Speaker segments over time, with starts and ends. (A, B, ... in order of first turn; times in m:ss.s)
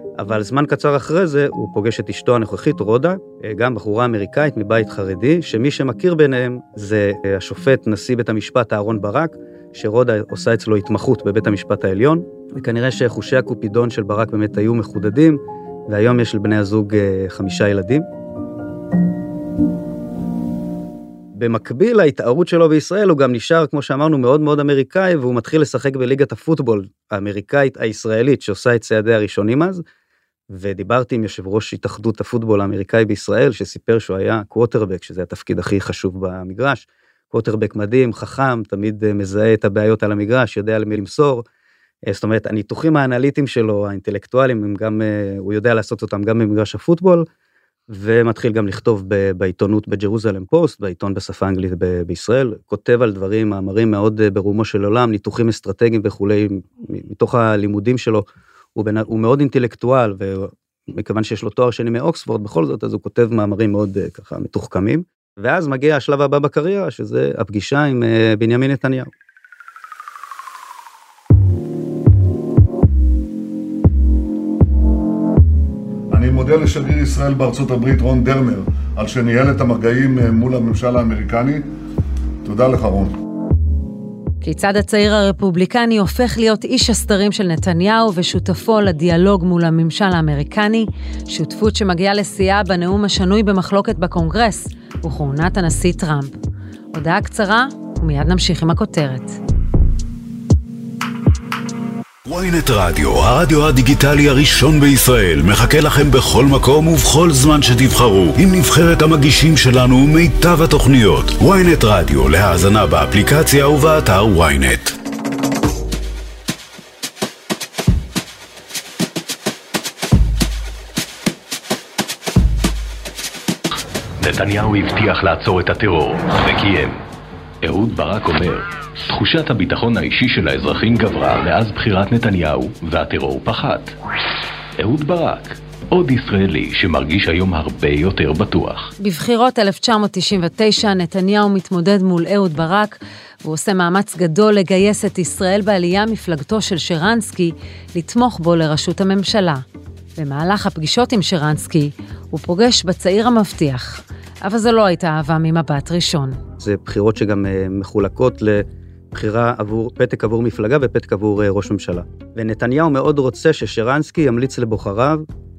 0:00.2-0:18.0 A
0:21.3-0:29.8 A
0:30.5-0:41.4 A
0:42.1-0:47.2 A
0:47.9-0:58.2 A
0:58.8-1:09.1 A
1:16.1-1:21.7 B
1:22.4-1:23.2 B
1:24.4-1:36.3 C
1:36.9-1:39.4 C
1:42.2-1:54.9 D
2:04.2-2:07.0 E
2:07.6-2:13.9 E
2:14.8-2:18.9 E
2:19.0-2:29.6 C
2:30.2-2:36.4 C
2:36.6-2:45.2 A